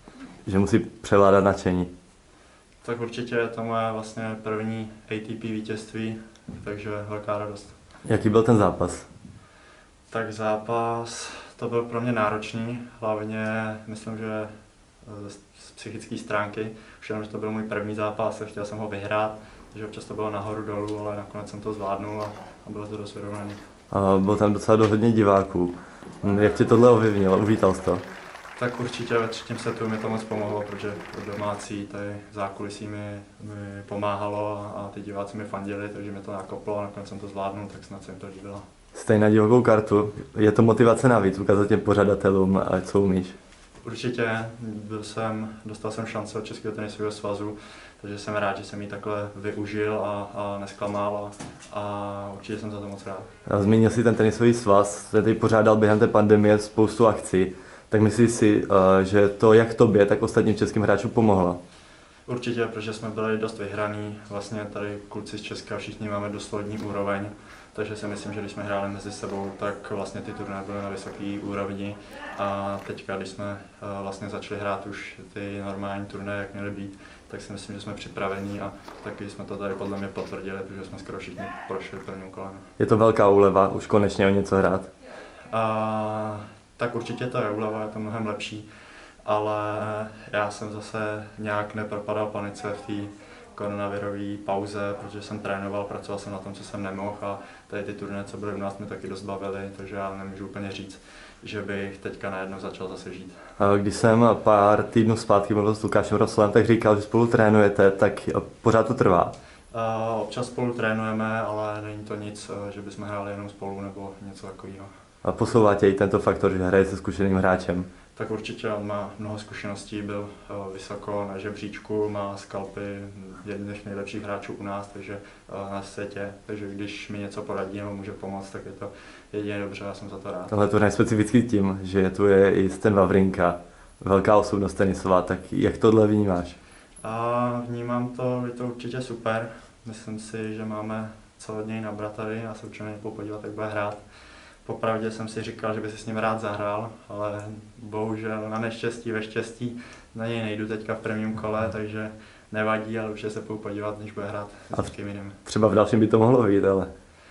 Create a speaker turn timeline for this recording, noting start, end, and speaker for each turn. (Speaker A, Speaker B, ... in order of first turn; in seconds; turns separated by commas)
Speaker A: 0.5-1.9, Speaker B: 2.8-7.8, Speaker A: 8.1-9.1, Speaker B: 10.1-14.5, Speaker B: 15.0-23.6, Speaker A: 23.9-28.0, Speaker B: 28.6-38.6, Speaker A: 38.9-43.4, Speaker B: 43.8-53.3, Speaker A: 53.5-61.6, Speaker B: 62.3-82.7, Speaker A: 82.8-84.9, Speaker B: 85.5-88.7, Speaker B: 89.2-103.4, Speaker A: 103.6-109.3, Speaker B: 109.7-114.9, Speaker A: 115.2-117.9, Speaker B: 118.2-130.5, Speaker A: 130.5-136.6, Speaker B: 137.0-144.0, Speaker B: 144.6-155.4, Speaker A: 154.8-156.9